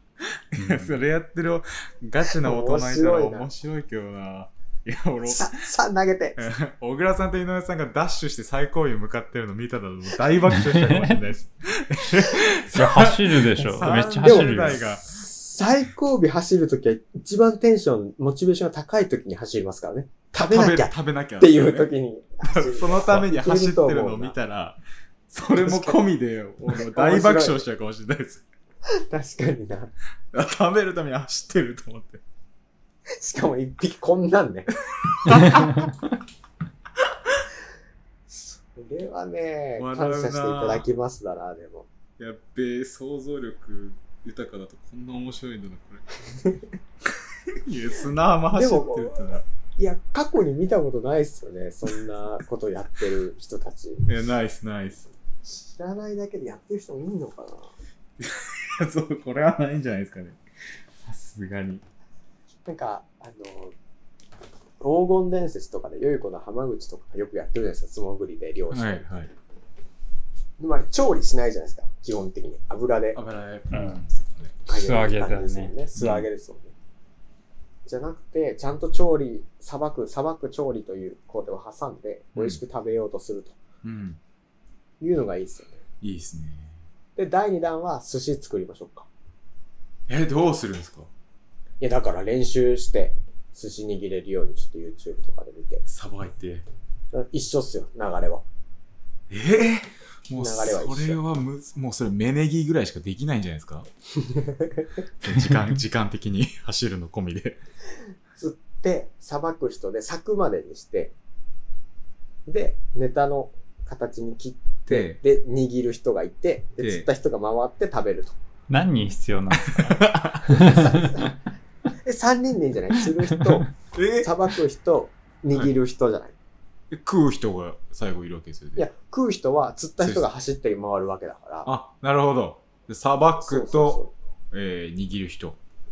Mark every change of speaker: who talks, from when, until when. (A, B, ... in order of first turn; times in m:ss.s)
0:00.3-0:05.7 A
0:00.6-0:00.9 B
0:02.4-0:03.5 C
0:05.2-0:06.4 C
0:06.4-0:15.1 A
0:10.5-0:11.2 B
0:12.7-0:14.9 B
0:14.2-0:24.4 C
0:20.3-0:21.9 A
0:22.4-0:24.8 A
0:25.3-0:28.4 A
0:25.5-0:26.0 C
0:26.7-0:27.6 C
0:29.1-0:29.9 C
0:30.3-0:32.2 A
0:33.2-0:34.7 C
0:34.8-0:35.9 A
0:35.5-0:35.8 B
0:38.3-0:41.9 C
0:39.8-0:40.9 A
0:42.2-0:46.4 A
0:47.6-0:49.4 A
0:48.5-0:54.1 C
0:54.1-0:55.1 A
0:55.4-0:57.7 C
0:58.2-1:00.4 A
1:01.0-1:01.8 A
1:02.6-1:03.7 C
1:04.8-1:09.3 C
1:08.7-1:09.3 A
1:10.6-1:13.2 C
1:13.1-1:14.6 A
1:13.7-1:14.0 B
1:14.7-1:16.7 C
1:14.7-1:15.7 B
1:16.0-1:16.3 A
1:17.9-1:23.6 C
1:22.4-1:22.6 A
1:23.8-1:24.2 A
1:25.0-1:25.8 C
1:26.0-1:26.8 A
1:27.2-1:29.1 C
1:30.1-1:31.1 A
1:31.8-1:35.8 C
1:35.9-1:36.6 A
1:37.1-1:38.4 C
1:39.3-1:43.9 A
1:40.4-1:41.2 C
1:44.2-1:44.9 C
1:45.2-1:47.6 A
1:48.4-1:51.1 C
1:52.5-1:58.4 C
1:54.9-1:55.2 A
1:56.8-1:57.1 A
1:58.7-2:01.0 B
1:59.6-2:00.6 A
2:00.5-2:01.4 C
2:02.0-2:03.7 C
2:03.9-2:04.3 A
2:04.2-2:06.4 C
2:06.9-2:08.9 A
2:08.8-2:11.7 C
2:10.0-2:10.3 A
2:11.6-2:15.6 A
2:13.4-2:14.1 C